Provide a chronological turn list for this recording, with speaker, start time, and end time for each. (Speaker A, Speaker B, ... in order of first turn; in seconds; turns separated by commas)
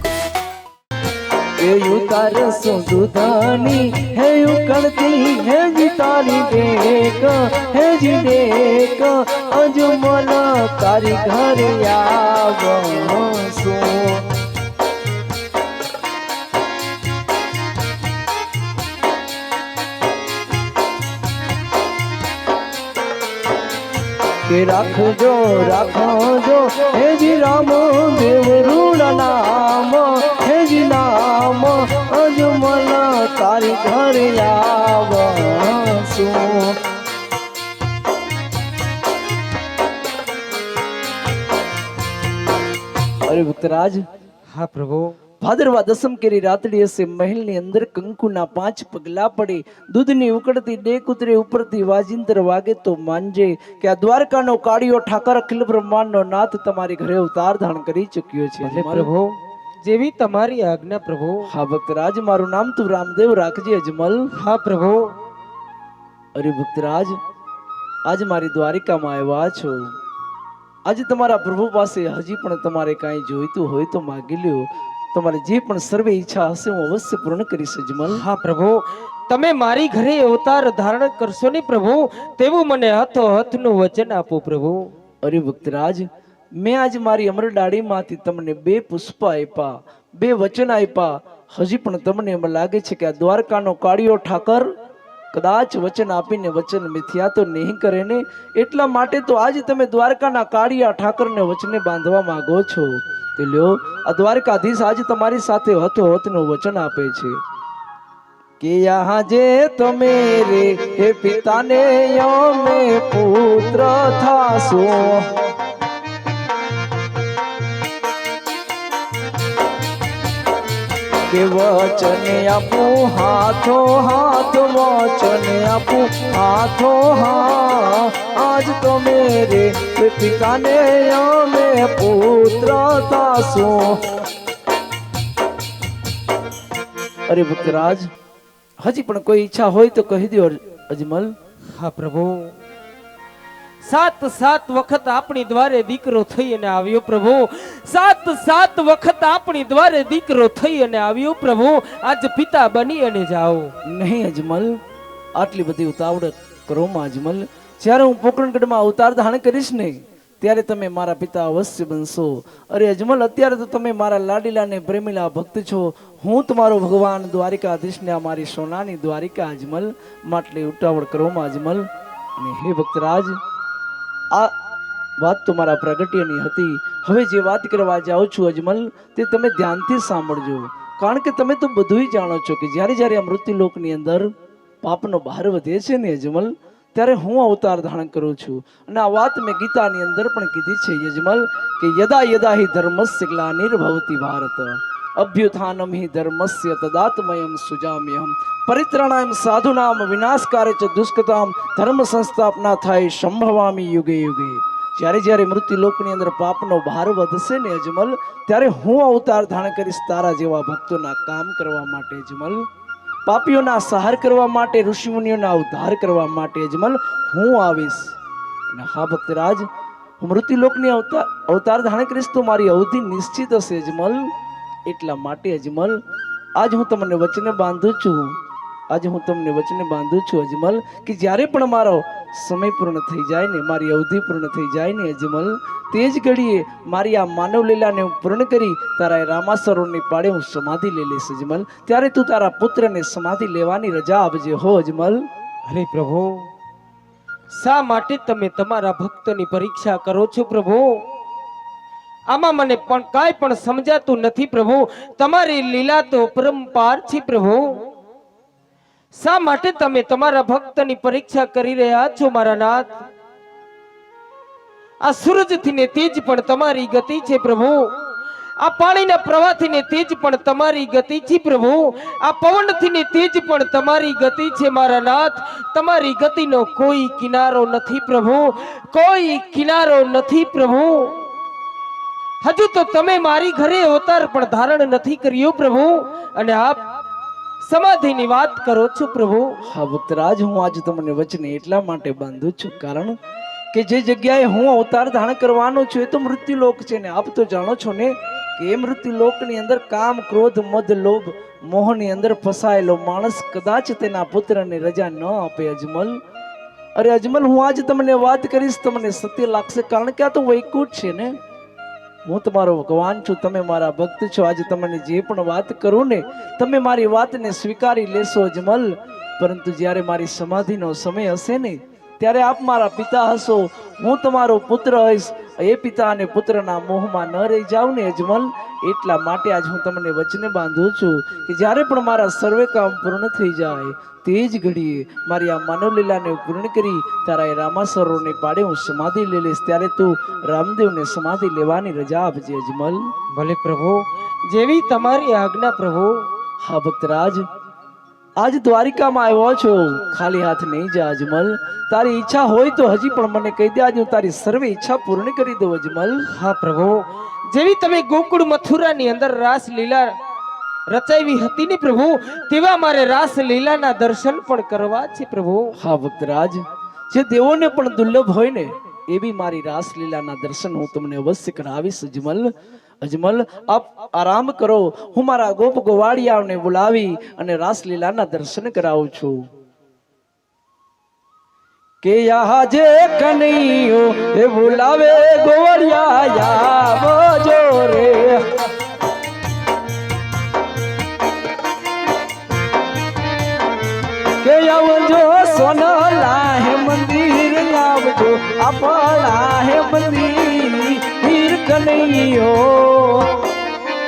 Speaker A: 1.6-14.3, Speaker A: 24.5-36.8, Speaker A: 43.3-44.0, Speaker B: 44.5-45.1, Speaker A: 45.4-59.1, Speaker B: 58.6-59.3, Speaker B: 59.8-61.5, Speaker A: 61.5-64.3, Speaker B: 64.3-65.1, Speaker A: 66.3-67.2, Speaker A: 68.1-69.9, Speaker A: 70.8-78.2, Speaker B: 78.1-84.9, Speaker A: 85.2-94.7, Speaker A: 95.3-107.4, Speaker A: 108.6-115.3, Speaker A: 121.3-134.2, Speaker A: 137.3-138.1, Speaker A: 138.8-141.3, Speaker B: 141.7-142.6, Speaker B: 143.8-153.7, Speaker A: 153.8-154.8, Speaker A: 155.3-173.4, Speaker A: 175.2-184.3, Speaker A: 184.8-212.6, Speaker A: 213.2-218.1, Speaker A: 218.7-219.7, Speaker A: 220.2-224.3, Speaker A: 224.9-226.0, Speaker A: 226.6-228.3, Speaker A: 228.9-245.2, Speaker B: 245.7-246.5, Speaker B: 247.5-251.0, Speaker B: 252.3-257.6, Speaker B: 259.1-263.0, Speaker B: 265.0-267.9, Speaker B: 268.6-281.2, Speaker B: 282.4-286.8, Speaker B: 287.6-289.6, Speaker A: 289.7-293.1, Speaker A: 293.7-306.2, Speaker A: 306.9-311.3, Speaker A: 312.2-343.1, Speaker B: 343.3-346.2, Speaker A: 346.6-347.4, Speaker A: 348.4-356.2, Speaker B: 356.3-360.1, Speaker B: 360.9-365.7, Speaker A: 365.8-372.5, Speaker A: 373.0-379.4, Speaker A: 382.0-388.6, Speaker A: 394.4-403.5